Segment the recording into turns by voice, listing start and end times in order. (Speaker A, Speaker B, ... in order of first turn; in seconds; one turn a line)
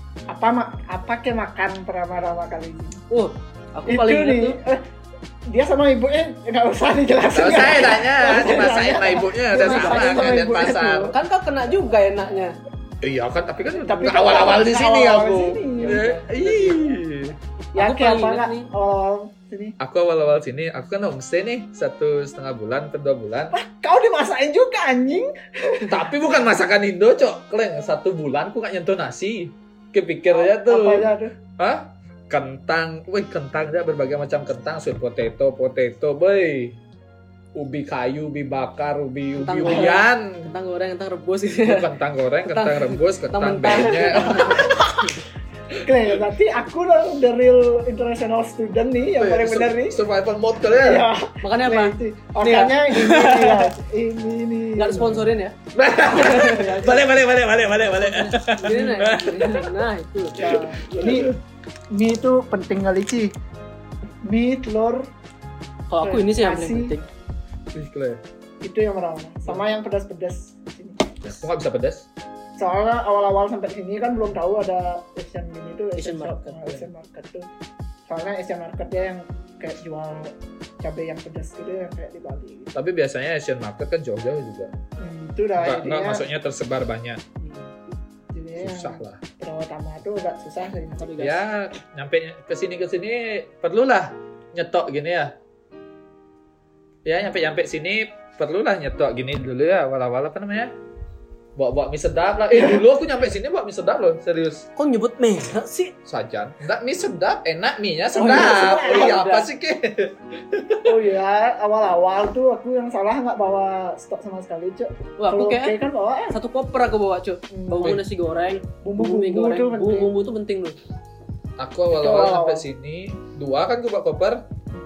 Speaker A: 0.3-3.0
Speaker B: 3.1-4.6
Speaker A: 3.9-4.8
Speaker A: 5.5-11.1
Speaker C: 7.3-11.1
Speaker B: 9.5-12.6
Speaker C: 13.0-17.4
Speaker A: 13.7-16.2
Speaker B: 15.8-16.8
Speaker A: 17.7-19.8
Speaker B: 17.8-18.7
Speaker C: 19.8-23.5
Speaker A: 23.5-26.1
Speaker C: 25.9-36.8
Speaker A: 30.3-31.3
Speaker C: 37.5-40.5
Speaker B: 39.4-41.9
Speaker C: 41.6-44.8
Speaker B: 42.4-45.2
Speaker A: 44.1-44.8
Speaker A: 45.8-50.0
Speaker C: 49.2-51.1
Speaker A: 50.7-55.3
Speaker B: 51.4-53.7
Speaker B: 54.8-57.0
Speaker C: 55.7-59.7
Speaker B: 57.8-60.9
Speaker A: 60.4-61.3
Speaker C: 60.5-61.3
Speaker A: 61.9-63.3
Speaker A: 64.2-65.1
Speaker B: 65.9-67.1
Speaker A: 66.0-66.9
Speaker C: 67.7-68.2
Speaker A: 68.6-71.5
Speaker C: 71.2-72.1
Speaker A: 72.6-77.5
Speaker B: 76.0-76.9
Speaker A: 78.1-82.7
Speaker C: 82.7-84.7
Speaker A: 85.0-86.3
Speaker C: 85.6-87.2
Speaker B: 87.4-87.7
Speaker A: 88.3-91.3
Speaker C: 88.6-89.2
Speaker B: 91.0-91.4
Speaker C: 91.2-95.3
Speaker C: 97.0-100.8
Speaker C: 101.5-104.7
Speaker B: 104.8-105.9
Speaker C: 106.0-111.0
Speaker A: 108.1-109.2
Speaker B: 108.1-109.5
Speaker A: 110.8-116.4
Speaker B: 115.2-115.8
Speaker B: 116.3-120.8
Speaker A: 117.5-118.0
Speaker A: 118.8-120.2
Speaker C: 121.6-124.4
Speaker A: 121.9-122.7